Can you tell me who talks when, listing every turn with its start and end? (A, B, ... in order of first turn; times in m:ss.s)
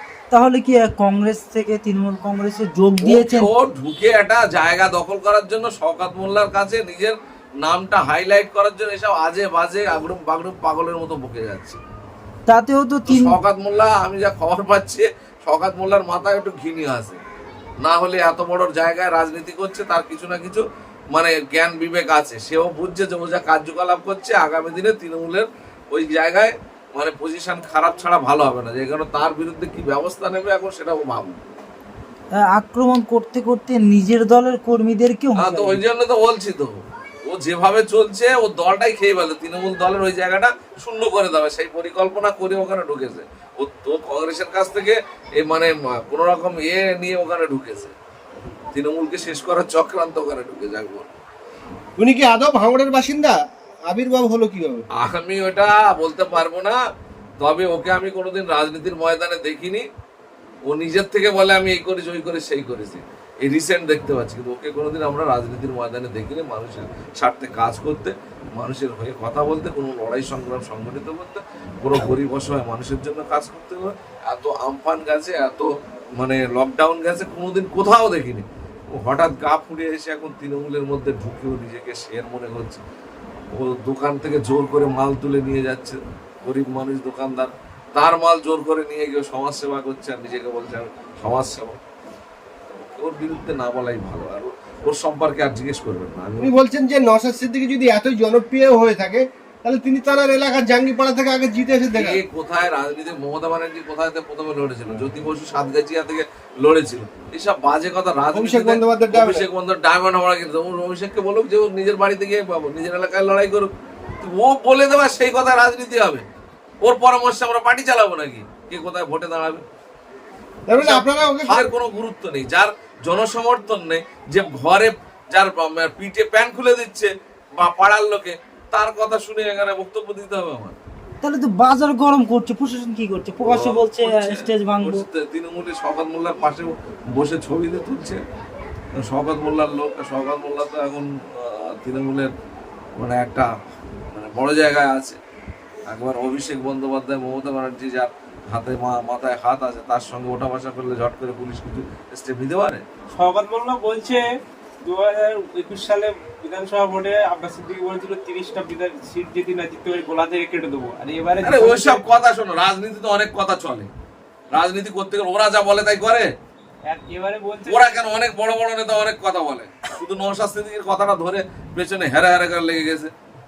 0:00.3-0:03.5 A
0:03.0-0:11.8 B
0:12.5-0:13.4 A
0:13.1-0:17.2 B
0:17.8-0:31.4 B
0:32.4-0:35.8 A
0:35.4-0:47.9 B
0:48.7-0:51.1 B
0:52.0-0:53.4 C
0:53.9-0:54.8 C
0:55.0-0:56.8 B
0:57.4-0:59.8 B
1:00.7-1:15.7 B
1:16.2-1:22.8 B
1:23.6-1:31.8 B
1:32.8-1:36.5 B
1:36.4-1:42.2 C
1:42.0-1:53.7 B
1:48.3-1:49.5 C
1:54.2-1:56.2 B
1:56.8-1:59.6 B
2:00.7-2:01.7 C
2:00.8-2:10.8 B
2:11.2-2:15.0 A
2:13.4-2:18.2 B
2:19.0-2:22.3 B
2:23.0-2:23.5 B
2:24.1-2:25.2 B
2:25.9-2:32.8 B
2:33.1-2:34.3 D
2:34.8-2:42.0 D
2:41.4-2:43.9 B
2:44.5-2:46.3 B
2:46.9-2:47.9 D
2:47.7-2:53.1 B